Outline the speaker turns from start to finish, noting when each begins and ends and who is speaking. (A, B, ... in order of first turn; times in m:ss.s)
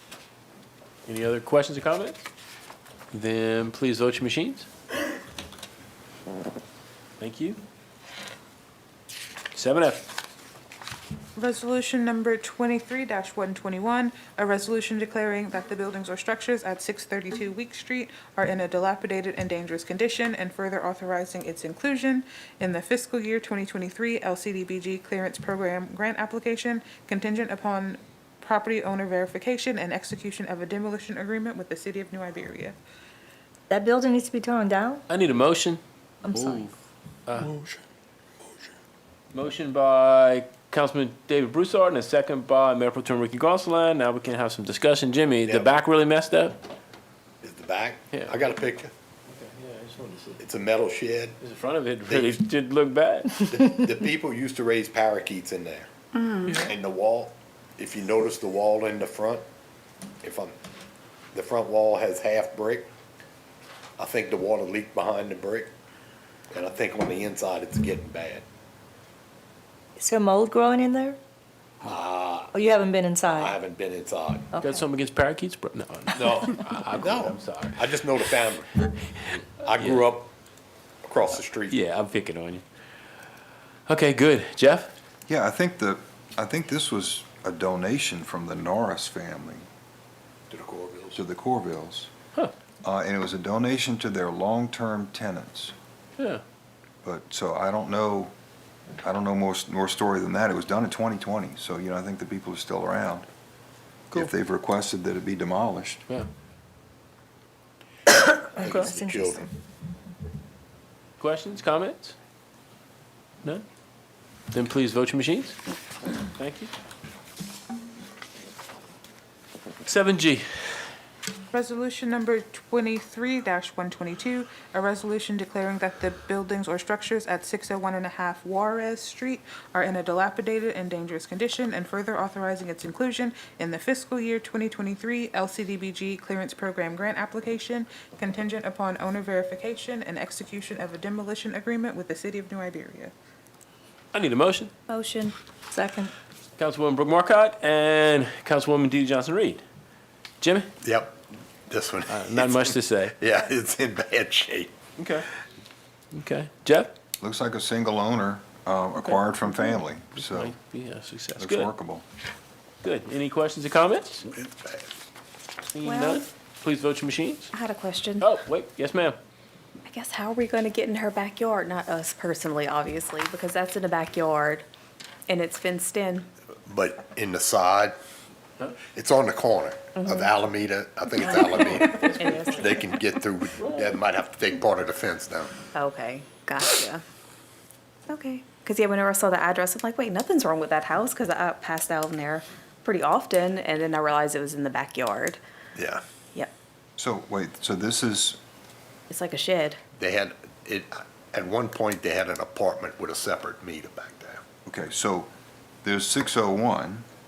0:01.1-0:02.3 A
0:03.1-0:04.7 A
0:07.2-0:07.6 A
0:09.5-0:10.1 A
0:11.4-0:32.8 B
0:33.7-0:35.0 C
0:35.1-0:35.8 A
0:36.2-0:36.7 C
0:37.3-0:37.5 A
0:39.3-0:46.6 A
0:45.5-0:45.7 D
0:47.4-0:48.9 D
0:49.3-0:50.4 A
0:50.4-0:51.4 D
0:51.4-0:53.7 A
0:52.1-0:52.4 D
0:53.5-0:55.9 D
0:56.5-0:59.4 D
1:00.2-1:00.5 D
1:01.3-1:02.9 D
1:04.0-1:05.7 D
1:06.5-1:08.4 D
1:10.0-1:11.2 C
1:11.8-1:12.6 D
1:12.5-1:13.6 C
1:13.3-1:14.5 D
1:14.5-1:14.8 C
1:14.6-1:18.3 A
1:16.1-1:18.7 D
1:18.9-1:20.1 A
1:19.6-1:20.3 D
1:21.0-1:21.8 D
1:21.7-1:22.6 A
1:23.9-1:24.9 A
1:25.3-1:29.7 E
1:30.5-1:31.2 D
1:31.2-1:32.1 E
1:32.8-1:35.7 E
1:37.0-1:38.3 E
1:39.0-1:43.3 E
1:44.1-1:46.0 E
1:48.6-1:49.5 C
1:48.6-1:49.5 D
1:51.2-1:52.2 A
1:54.5-1:55.6 A
1:56.4-1:56.7 A
1:59.8-2:00.8 A
2:01.5-2:23.1 B
2:24.1-2:24.7 A
2:24.9-2:25.4 F
2:25.7-2:26.1 C
2:26.6-2:29.6 A
2:30.4-2:30.7 A
2:30.8-2:34.8 D
2:32.1-2:33.1 A
2:35.0-2:35.3 A
2:36.1-2:36.9 A
2:37.2-2:40.6 E
2:40.2-2:41.7 A
2:41.4-2:42.0 E
2:42.8-2:44.3 A
2:44.3-2:44.8 D
2:45.7-2:47.5 A
2:45.8-2:46.2 F
2:47.5-2:48.3 F
2:48.2-2:49.2 A
2:49.9-2:54.6 F
2:55.3-2:56.3 F
2:56.7-2:57.9 D
2:59.0-3:05.7 D
3:00.0-3:00.3 F
3:01.8-3:02.5 A
3:02.0-3:02.7 F
3:05.7-3:07.0 F
3:08.1-3:15.4 F
3:15.8-3:16.0 D
3:17.0-3:18.4 E
3:19.1-3:19.8 F
3:20.0-3:24.4 D
3:24.7-3:25.3 E
3:25.8-3:27.1 E